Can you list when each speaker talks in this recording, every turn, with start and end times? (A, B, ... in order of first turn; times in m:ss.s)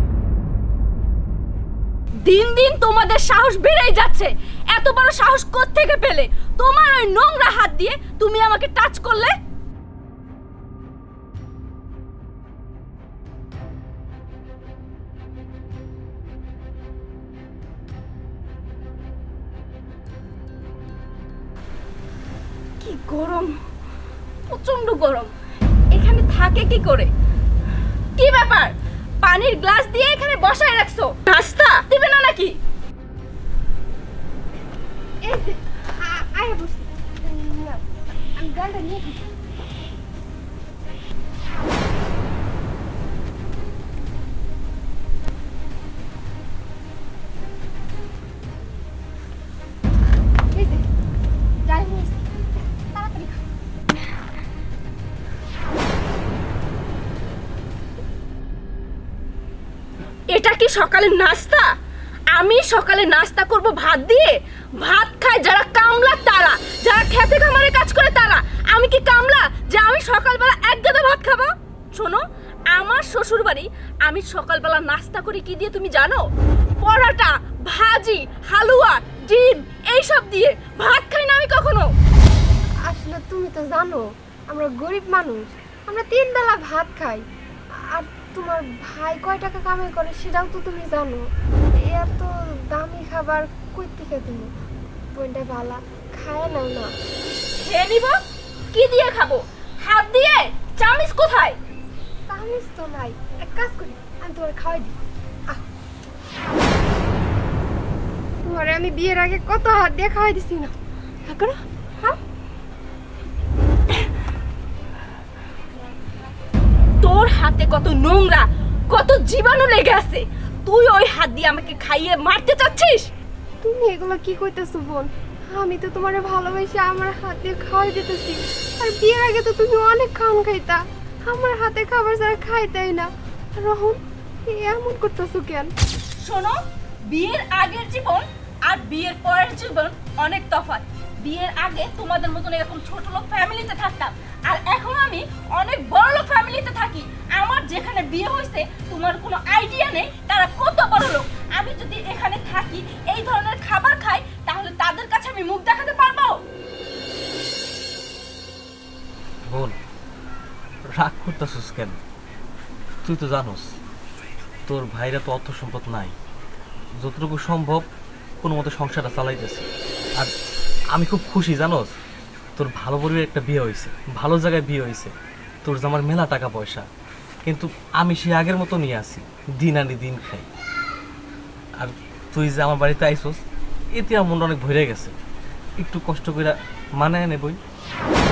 0:02.2-0:09.3 A
0:22.8-0:23.6 A
0:24.5-0:25.3 A
0:25.9-0:27.1 A
0:28.2-0:32.6 A
0:35.2-0:37.8 B
0:38.4-0:39.3 B
0:50.5-0:50.8 B
0:51.6-0:52.3 B
0:52.9-0:53.4 B
1:00.3-1:01.7 A
1:02.3-1:16.2 A
1:16.8-1:21.9 A
1:22.8-1:27.2 B
1:27.9-1:31.2 B
1:31.8-1:34.5 B
1:35.1-1:36.9 B
1:37.6-1:38.2 A
1:38.7-1:41.6 A
1:42.3-1:44.9 B
1:48.4-1:50.7 B
1:51.3-1:52.2 B
1:57.0-2:03.1 A
2:03.6-2:15.7 B
2:16.2-2:36.4 A
2:39.5-2:39.8 C
2:40.9-2:42.0 C
2:43.0-2:43.7 C
2:44.7-2:46.1 C
2:47.0-2:47.8 C
2:48.4-2:50.3 C
2:50.9-2:51.9 C
2:52.6-2:55.1 C
2:55.6-2:56.8 C
2:57.5-3:00.5 C
3:01.8-3:03.4 C
3:04.0-3:05.1 C
3:05.8-3:07.6 C